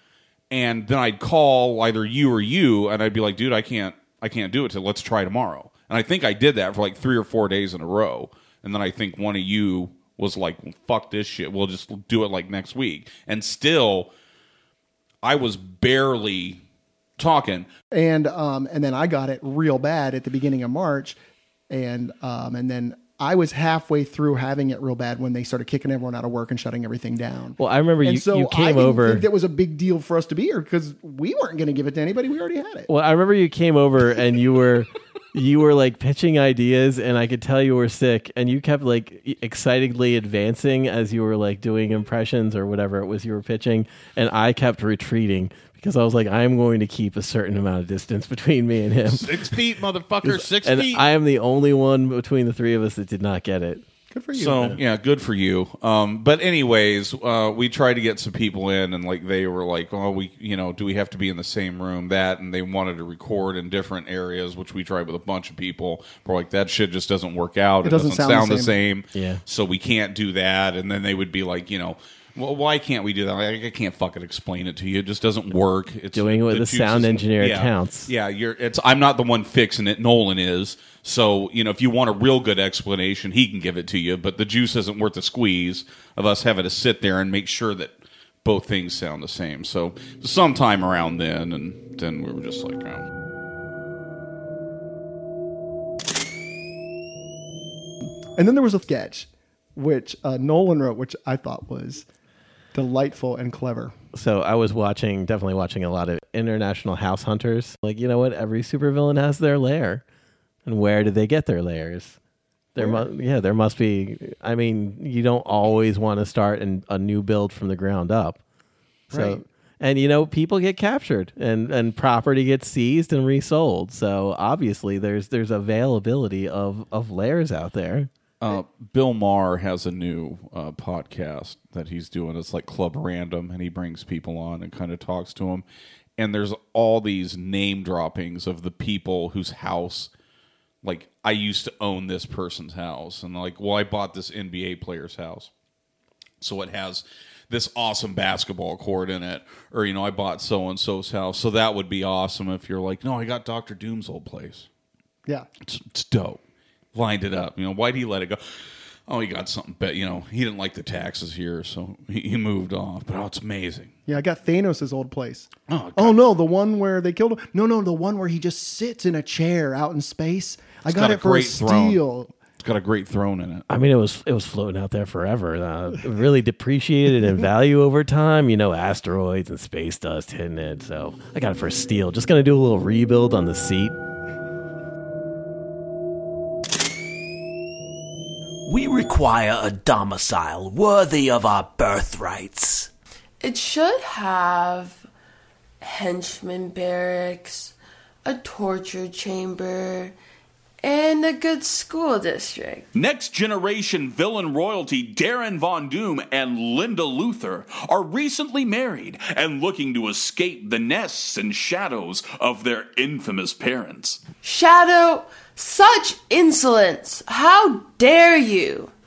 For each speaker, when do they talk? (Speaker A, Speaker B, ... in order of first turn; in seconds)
Speaker A: 0.5-14.1, 15.2-16.6, 17.2-17.7, 49.0-51.0, 54.3-93.0, 128.4-135.6, 136.2-140.1, 140.8-145.5, 146.4-154.7, 155.6-156.4, 156.9-158.4, 159.1-163.9, 165.7-166.3, 170.9-172.0, 172.6-173.7
Speaker B: 17.9-21.2, 21.7-32.9, 67.8-68.7, 98.4-102.0, 102.7-103.9, 112.8-113.1, 119.1-119.4, 164.1-172.3
Speaker C: 27.6-29.3, 32.9-49.3, 50.2-53.8, 54.4-54.8, 69.1-69.4, 76.1-78.1, 104.1-110.0, 110.6-112.2, 112.7-118.4, 119.1-128.1, 173.7-183.9
Speaker D: 188.7-192.9
Speaker E: 193.4-195.1, 195.8-197.7, 198.2-200.1, 200.8-202.9, 214.4-218.9
Speaker F: 202.9-214.2